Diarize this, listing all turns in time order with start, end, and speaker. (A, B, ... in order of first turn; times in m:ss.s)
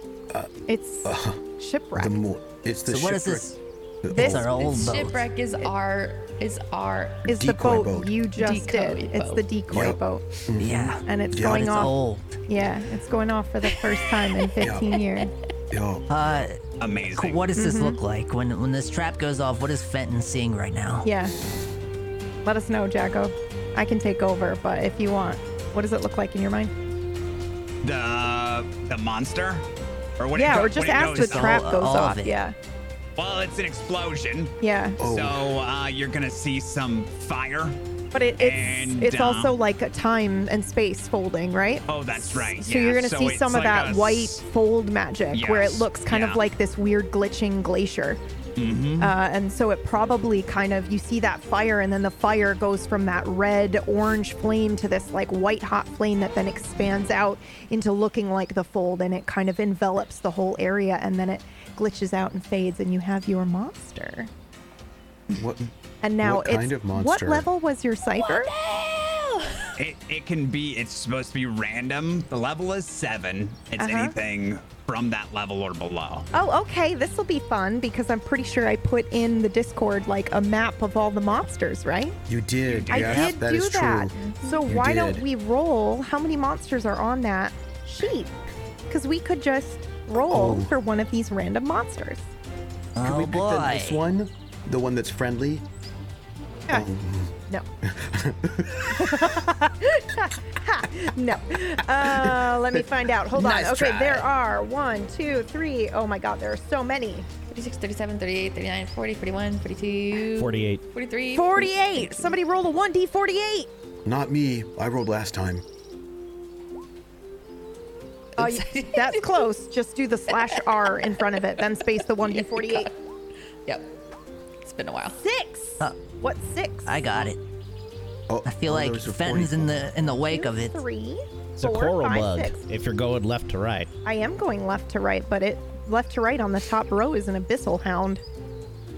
0:00.7-0:02.2 A
0:01.0-0:01.4 B
0:02.0-0:04.6 B
0:02.9-0:03.6 C
0:04.1-0:05.3 C
0:04.1-0:04.7 A
0:04.6-0:07.3 D
0:07.3-0:10.4 A
0:07.3-0:08.1 B
0:08.4-0:09.4 D
0:09.7-0:11.7 B
0:10.6-0:12.4 C
0:11.0-0:11.9 A
0:12.5-0:15.3 A
0:14.6-0:15.0 B
0:15.7-0:16.4 B
0:16.1-0:16.6 C
0:16.8-0:17.5 E
0:17.2-0:21.1 C
0:17.6-0:18.0 A
0:21.0-0:21.4 A
0:22.4-0:26.7 A
0:27.8-0:29.7 E
0:30.2-0:31.6 E
0:30.4-0:32.6 A
0:31.1-0:32.4 C
0:33.2-0:37.8 E
0:34.6-0:35.0 A
0:35.0-0:35.6 B
0:38.1-0:48.2 A
0:38.4-0:39.6 E
0:41.9-0:44.4 E
0:45.3-0:46.4 E
0:48.6-0:49.2 E
0:49.0-1:04.3 A
1:05.4-1:07.5 B
1:06.0-1:08.5 A
1:08.1-1:09.7 D
1:09.8-1:16.3 E
1:13.8-1:14.1 A
1:16.3-1:22.2 A
1:22.3-1:24.1 B
1:22.7-1:23.3 E
1:22.9-1:28.3 A
1:24.2-1:24.7 D
1:24.7-1:25.3 B
1:28.9-1:32.3 A
1:30.2-1:30.7 B
1:33.0-1:34.0 C
1:33.0-1:35.6 B
1:36.7-1:39.4 B
1:38.9-1:47.3 A
1:42.0-1:44.3 B
1:47.5-1:52.4 D
1:50.3-1:50.8 F
1:51.3-1:53.7 A
1:54.0-1:55.6 B
1:58.4-1:59.4 D
1:58.4-2:02.9 A
2:00.5-2:01.1 D
2:02.3-2:03.0 D
2:03.7-2:04.0 D
2:04.6-2:05.2 D
2:05.2-2:07.0 A
2:06.9-2:07.4 C
2:08.3-2:09.9 B
2:08.5-2:10.8 C
2:10.1-2:12.6 A
2:11.6-2:13.9 F
2:14.0-2:18.2 A